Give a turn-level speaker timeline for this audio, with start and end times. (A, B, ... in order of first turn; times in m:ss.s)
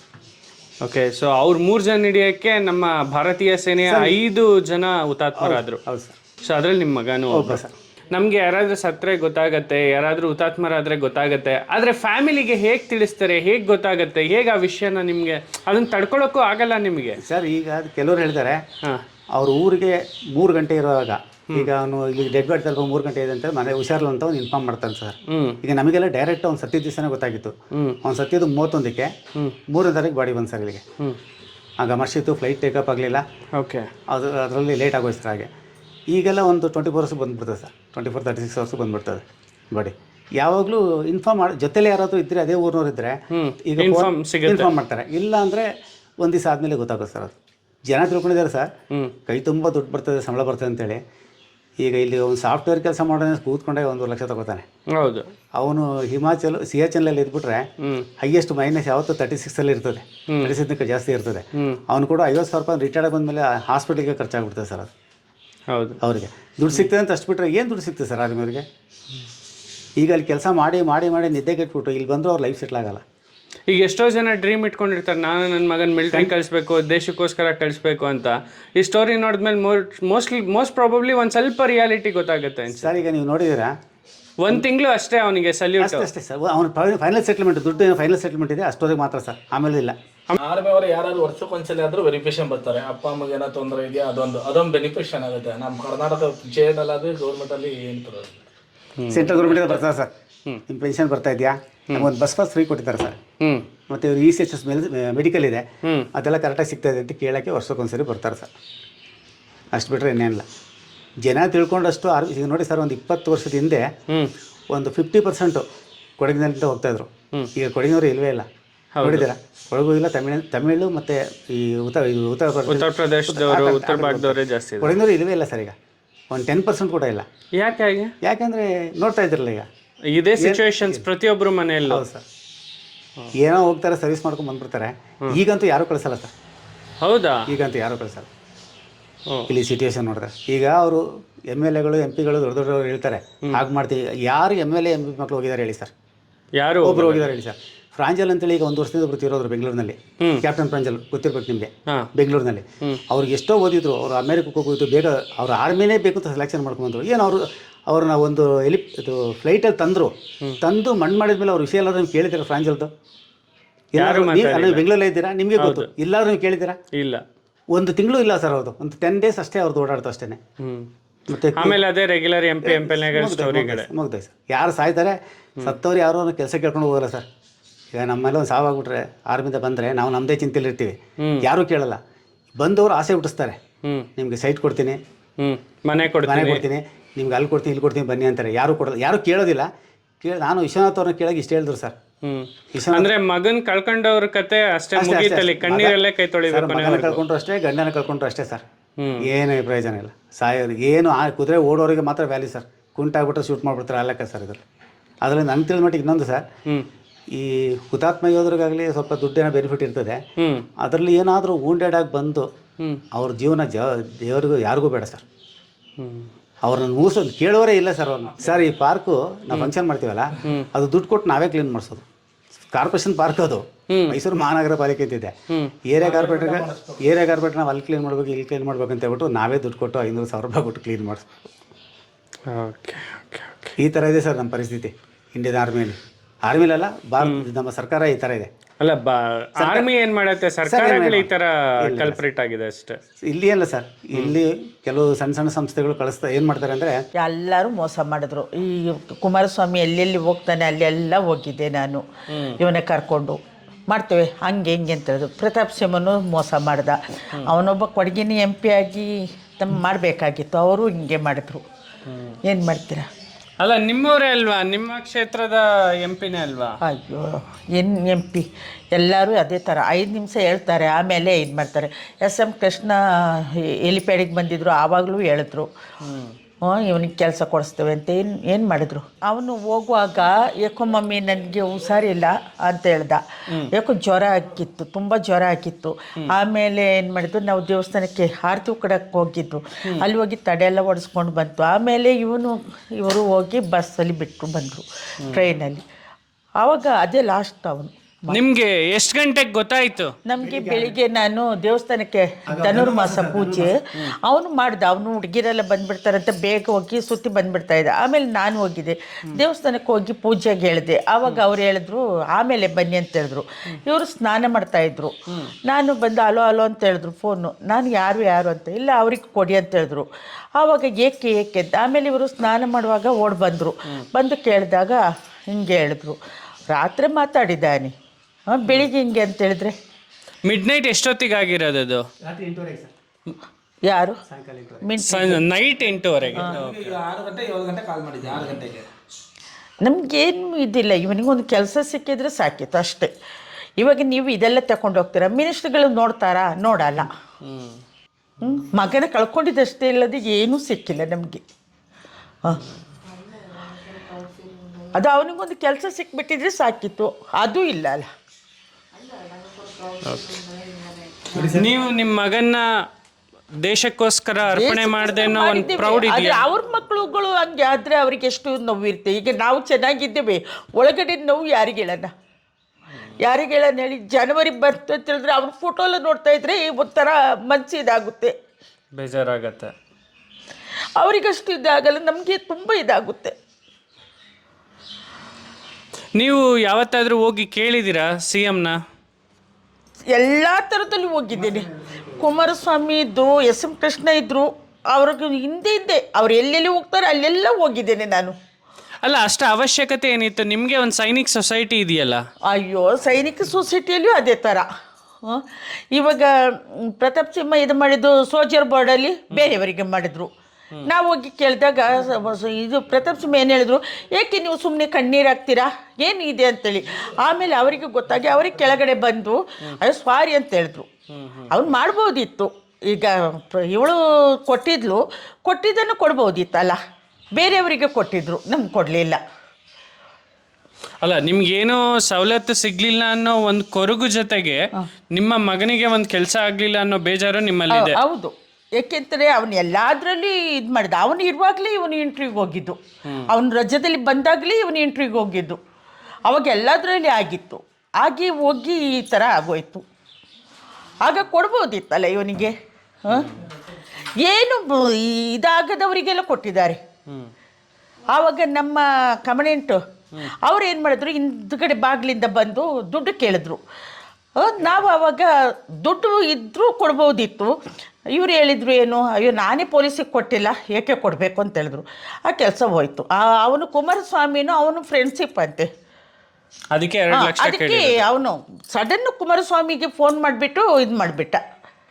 0:00.8-0:05.8 A
0:03.8-0:04.2 B
0:05.4-0:06.1 B
0:06.4-0:17.2 A
0:07.3-0:07.7 B
0:17.2-0:18.6 B
0:19.3-0:29.1 B
0:25.3-0:25.6 A
0:29.7-0:30.8 B
0:31.8-0:33.2 B
0:33.6-0:33.9 A
0:34.1-0:35.5 B
0:36.1-0:45.7 B
0:43.3-0:44.7 A
0:46.2-0:47.3 B
0:47.9-0:48.7 B
0:49.3-0:51.0 B
0:51.8-0:54.6 B
0:55.0-0:55.2 A
0:55.6-0:57.7 B
0:57.8-0:58.1 A
0:58.2-1:04.9 B
1:05.7-1:06.0 A
1:06.0-1:08.6 B
1:10.0-1:13.0 B
1:13.7-1:22.9 A
1:22.7-1:23.7 B
1:24.4-1:26.1 A
1:25.8-1:29.9 B
1:30.4-1:38.4 C
1:39.0-1:39.8 A
1:39.1-1:40.1 B
1:40.7-1:43.2 B
1:43.4-1:43.6 A
1:43.9-1:48.5 B
1:49.7-1:50.4 B
1:51.2-1:53.9 B
1:54.7-1:55.6 B
1:56.2-1:58.4 B
1:59.0-1:59.3 A
1:59.0-2:05.7 B
2:02.7-2:05.0 A
2:06.3-2:07.2 B
2:07.6-2:08.1 A
2:08.2-2:09.7 B
2:10.1-2:12.0 A
2:10.4-2:11.0 B
2:11.9-2:12.2 B
2:13.3-2:16.3 B
2:17.0-2:17.5 A
2:17.5-2:18.3 B
2:19.5-2:25.9 B
2:26.6-2:27.3 A
2:26.8-2:42.9 B
2:43.9-2:46.8 B
2:44.0-2:44.8 A
2:45.6-2:45.9 A
2:46.9-2:47.2 A
2:47.7-2:50.4 B
2:50.6-2:50.9 A
2:51.3-2:51.8 B
2:51.5-2:53.9 A
2:52.6-2:57.2 B
2:57.9-3:02.0 B
3:01.2-3:01.4 A
3:02.6-3:03.6 B
3:04.2-3:05.0 B
3:05.4-3:06.6 A
3:06.2-3:09.7 B
3:10.2-3:11.9 B
3:12.2-3:17.2 A
3:12.7-3:13.1 B
3:15.0-3:18.6 B
3:19.0-3:19.3 A
3:19.2-3:24.6 B
3:25.2-3:26.4 B
3:27.3-3:30.2 B
3:30.8-3:32.5 B
3:33.1-3:35.2 B
3:36.0-3:36.3 A
3:36.6-3:42.0 B
3:42.7-3:45.3 B
3:43.9-3:44.2 A
3:45.8-3:51.4 B
3:46.0-3:47.0 C
3:52.5-3:53.7 A
3:53.8-3:58.5 B
3:58.8-4:03.0 A
3:59.6-3:59.9 B
4:00.6-4:02.2 B
4:03.2-4:07.0 B
4:07.2-4:12.0 D
4:12.6-4:13.4 D
4:13.9-4:21.6 D
4:22.4-4:23.0 D
4:23.6-4:26.8 A
4:26.8-4:35.7 D
4:36.0-4:36.3 A
4:36.6-4:55.8 D
4:56.6-4:58.4 D
4:58.3-5:00.1 A
5:00.2-5:15.1 D
5:00.4-5:01.0 B
5:02.5-5:03.7 B
5:15.6-5:20.0 D
5:20.6-5:26.2 D
5:26.7-5:27.9 D
5:28.5-5:29.7 D
5:30.4-5:32.0 A
5:32.2-5:32.9 B
5:33.8-5:34.2 D
5:34.3-5:34.9 B
5:34.8-5:35.4 D
5:35.0-5:36.9 A
5:36.3-5:38.8 C
5:39.8-5:43.1 D
5:43.8-5:47.1 D
5:47.4-5:47.8 A
5:48.4-5:51.4 D
5:54.9-5:58.0 D
6:00.0-6:00.4 A
6:01.3-6:02.6 A
6:03.6-6:06.4 A
6:04.4-6:12.1 D
6:13.2-6:18.3 D
6:19.0-6:19.7 A
6:21.0-6:23.3 D
6:26.2-6:28.8 A
6:30.1-6:38.3 D
6:39.0-6:42.2 A
6:42.5-6:44.6 D
6:45.2-6:46.3 D
6:47.0-6:50.3 D
6:49.3-6:49.6 A
6:50.8-7:00.9 D
7:01.1-7:01.5 A
7:01.5-7:06.8 D
7:07.3-7:09.2 D
7:11.0-7:14.6 A
7:15.1-7:18.0 A
7:17.7-7:22.8 D
7:23.3-7:25.6 D
7:26.3-7:29.8 D
7:31.0-7:32.5 D
7:33.0-7:33.4 D
7:34.2-7:36.8 D
7:38.1-7:39.8 D
7:40.4-7:43.6 D
7:44.4-7:45.3 D
7:45.8-7:47.5 D
7:48.1-7:55.6 D
7:56.7-7:58.0 A
7:57.1-8:01.4 D